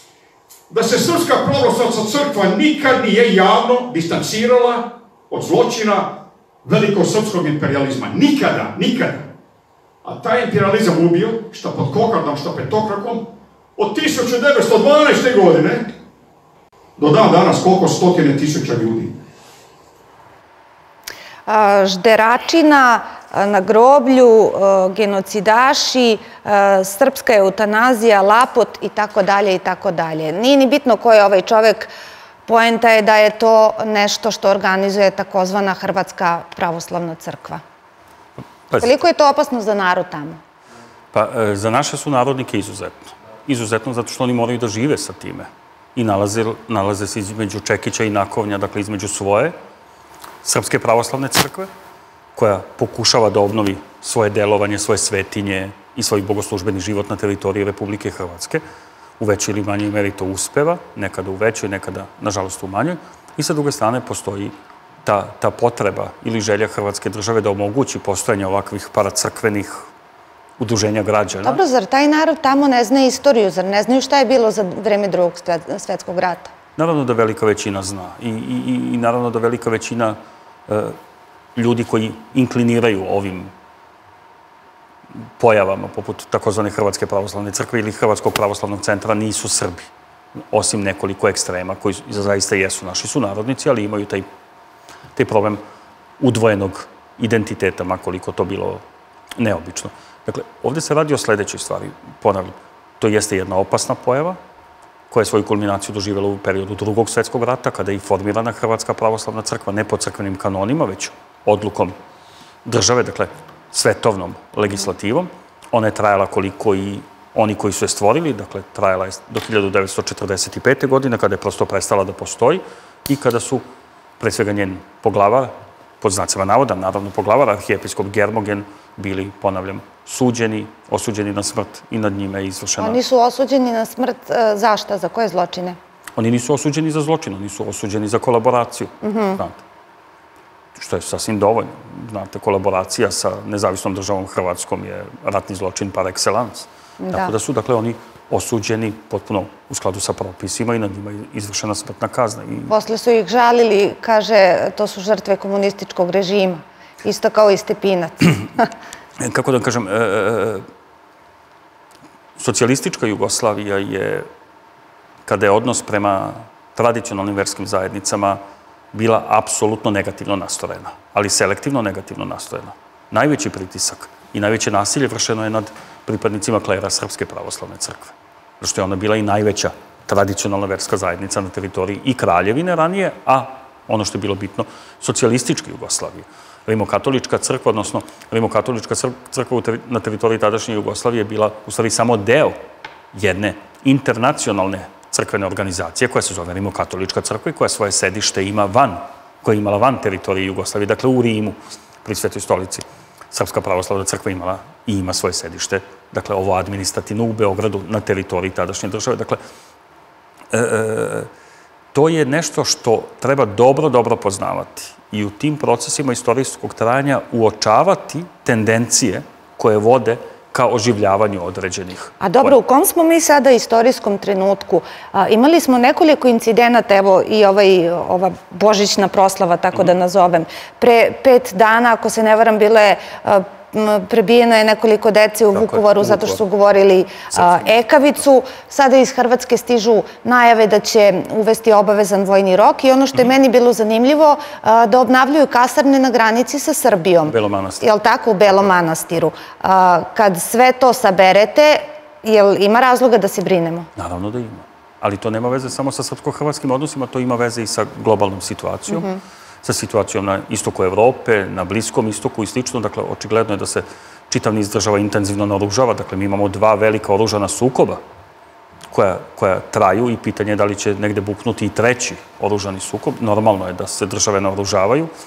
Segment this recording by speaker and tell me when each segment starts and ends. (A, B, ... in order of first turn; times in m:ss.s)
0:00.7-0:06.1 A
0:06.6-0:09.3 A
0:10.0-0:13.2 A
0:13.8-0:15.9 A
0:17.0-0:19.1 A
0:21.5-0:31.9 B
0:32.4-0:37.6 B
0:38.8-0:40.4 B
0:41.1-0:49.5 C
0:50.4-0:51.7 C
0:52.3-0:58.6 C
0:59.2-1:04.5 C
1:05.0-1:09.9 C
1:10.6-1:11.6 C
1:11.4-1:16.5 B
1:16.8-1:21.0 C
1:21.6-1:23.5 C
1:25.4-1:29.9 C
1:30.5-1:34.2 C
1:35.2-1:35.6 C
1:36.2-1:38.8 C
1:39.4-1:44.4 C
1:45.1-1:51.9 C
1:52.6-2:03.6 C
2:04.2-2:13.0 C
2:12.8-2:15.8 B
2:16.2-2:19.6 C
2:19.0-2:19.4 B
2:20.8-2:32.7 C
2:27.0-2:27.3 B
2:32.7-2:38.7 B
2:39.2-2:40.6 C
2:42.4-2:44.3 C
2:45.2-2:48.4 C
2:48.9-3:12.6 C
3:13.1-3:29.4 C
3:30.5-3:31.3 C
3:31.9-3:42.5 C
3:42.2-4:13.9 B
3:55.5-3:56.4 C
4:07.3-4:07.8 C
4:14.0-4:19.1 C
4:18.9-4:19.2 B
4:19.6-4:28.0 C
4:28.9-4:35.1 C